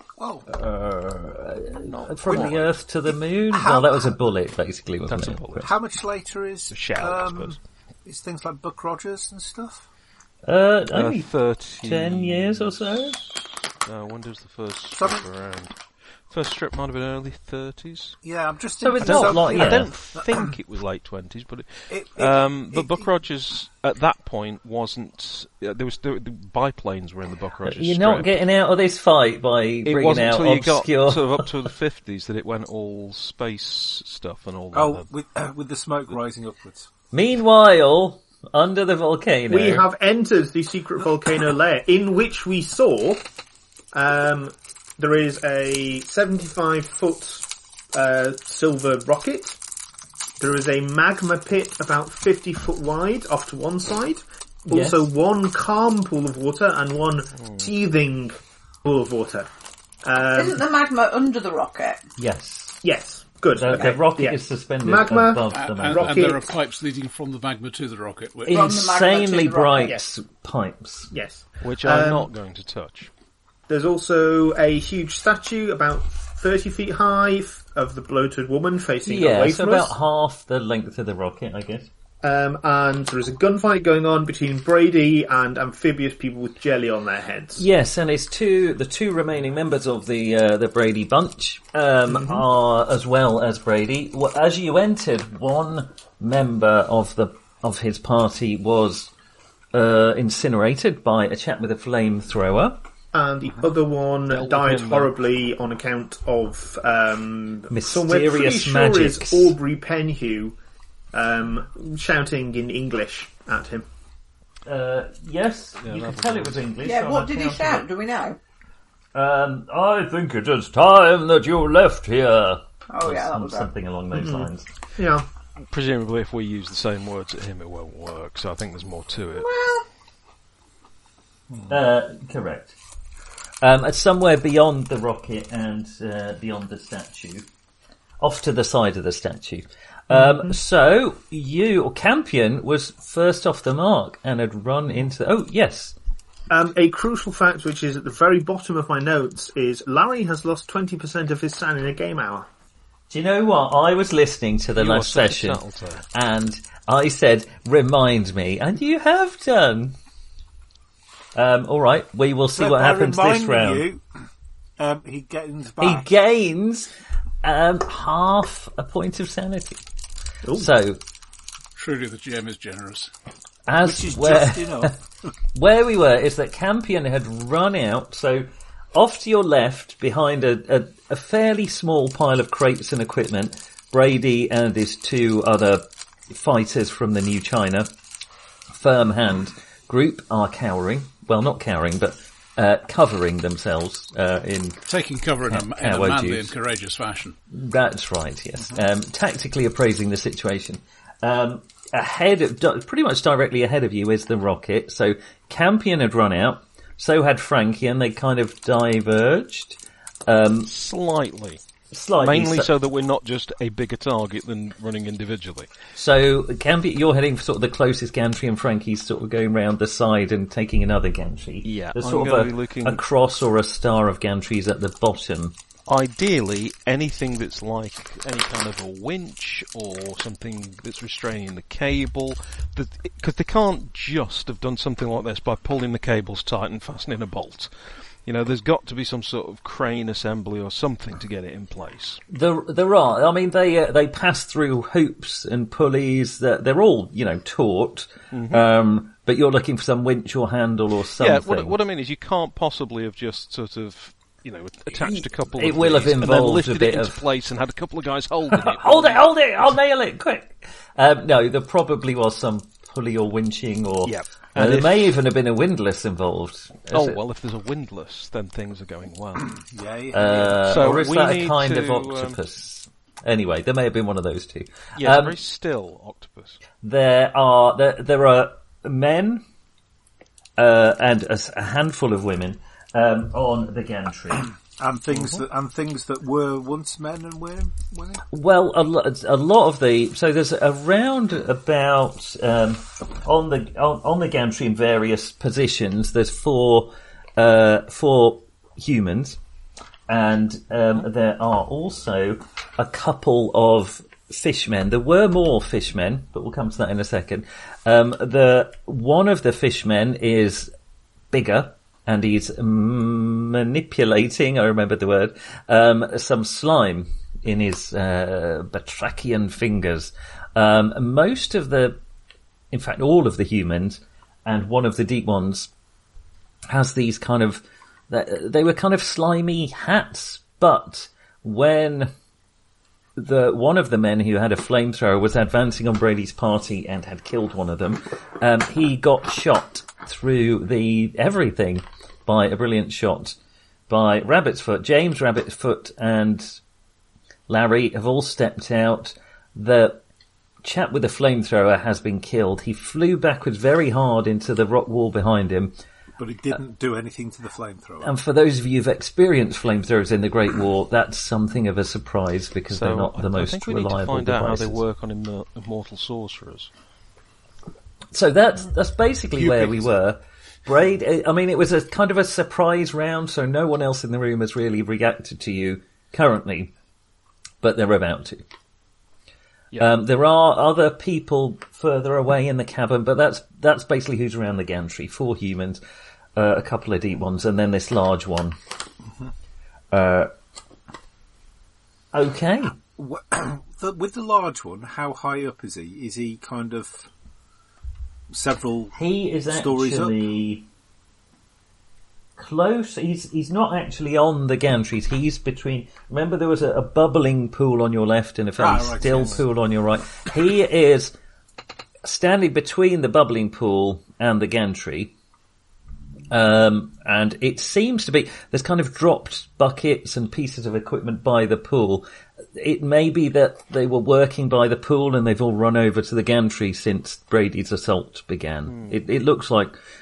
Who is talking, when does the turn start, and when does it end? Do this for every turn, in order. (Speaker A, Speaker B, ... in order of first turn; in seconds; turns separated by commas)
Speaker A: 0.2-0.5, Speaker B: 0.5-5.7, Speaker C: 1.8-2.7, Speaker A: 2.3-2.6, Speaker A: 3.5-4.2, Speaker C: 5.1-5.7, Speaker A: 5.6-9.8, Speaker C: 6.7-7.6, Speaker B: 10.4-13.2, Speaker C: 10.9-13.3, Speaker C: 13.8-15.8, Speaker A: 14.9-15.2, Speaker C: 16.3-18.2, Speaker A: 18.2-20.5, Speaker B: 18.8-19.9, Speaker C: 19.0-28.3, Speaker A: 21.9-23.1, Speaker B: 27.6-31.5, Speaker C: 29.9-35.1, Speaker A: 34.7-36.9, Speaker B: 37.1-39.9, Speaker D: 39.5-43.2, Speaker D: 43.9-49.6, Speaker D: 50.4-59.5, Speaker B: 54.7-55.1, Speaker C: 57.4-57.7, Speaker D: 60.0-60.6, Speaker E: 60.4-62.0, Speaker B: 62.2-62.8, Speaker D: 62.8-66.5, Speaker B: 63.5-66.2, Speaker F: 65.5-68.7, Speaker E: 68.5-70.0, Speaker B: 68.5-71.1, Speaker D: 71.1-72.3, Speaker C: 71.6-73.1, Speaker D: 73.7-79.9, Speaker B: 79.0-81.9, Speaker D: 82.2-87.7, Speaker B: 87.6-99.1, Speaker D: 92.1-92.4, Speaker B: 99.7-102.8, Speaker D: 103.1-110.6, Speaker C: 104.3-105.1, Speaker B: 107.7-109.6, Speaker D: 111.1-113.9, Speaker B: 114.7-117.9, Speaker C: 115.8-116.6, Speaker E: 116.8-118.4, Speaker B: 119.1-124.7, Speaker E: 122.9-123.7, Speaker D: 124.1-125.3, Speaker C: 125.7-129.5, Speaker E: 129.3-129.8, Speaker B: 131.7-132.8, Speaker B: 133.6-137.5, Speaker B: 138.2-146.0, Speaker D: 140.1-140.6, Speaker D: 146.5-152.5, Speaker B: 153.1-155.6, Speaker C: 154.8-156.1, Speaker B: 156.1-160.0, Speaker B: 161.3-163.9, Speaker A: 162.5-164.0, Speaker A: 164.8-166.1, Speaker B: 165.8-166.9, Speaker B: 167.4-169.8, Speaker D: 170.4-170.7, Speaker B: 170.5-171.0, Speaker F: 171.8-173.1, Speaker B: 173.7-174.9, Speaker A: 173.8-174.9, Speaker B: 175.5-187.9, Speaker B: 188.7-194.8, Speaker F: 194.9-197.4, Speaker B: 195.4-196.5, Speaker B: 197.5-210.7, Speaker C: 210.7-211.6, Speaker B: 211.9-212.7, Speaker C: 212.2-215.7, Speaker B: 216.0-225.6, Speaker C: 221.6-223.0, Speaker C: 225.9-237.7, Speaker C: 238.3-242.2, Speaker B: 242.3-251.8, Speaker C: 248.3-248.7, Speaker C: 251.2-259.3, Speaker B: 254.9-257.2, Speaker B: 258.6-267.2, Speaker C: 264.1-265.2, Speaker C: 266.9-269.6, Speaker A: 269.5-271.0, Speaker B: 270.1-275.4, Speaker C: 270.6-272.4, Speaker C: 275.0-276.6, Speaker B: 276.8-279.4, Speaker B: 280.6-284.5, Speaker A: 284.8-288.2, Speaker C: 285.1-285.4, Speaker B: 288.3-299.4, Speaker B: 300.1-310.7, Speaker B: 311.3-322.0, Speaker B: 322.7-325.7, Speaker B: 326.7-332.1, Speaker B: 333.2-343.4, Speaker B: 343.9-346.6, Speaker B: 347.5-350.0, Speaker B: 350.6-355.8, Speaker A: 356.2-358.1, Speaker B: 358.0-364.8, Speaker C: 362.7-366.7, Speaker B: 368.1-376.7, Speaker B: 377.6-378.4, Speaker B: 379.7-385.8, Speaker B: 386.4-388.6, Speaker B: 389.9-390.3, Speaker B: 392.1-392.8, Speaker A: 393.0-397.1, Speaker A: 398.3-398.9, Speaker B: 398.9-400.6, Speaker A: 399.5-400.2, Speaker B: 402.4-411.1, Speaker A: 408.6-409.5, Speaker B: 412.0-415.1, Speaker B: 416.3-429.8, Speaker C: 428.7-429.0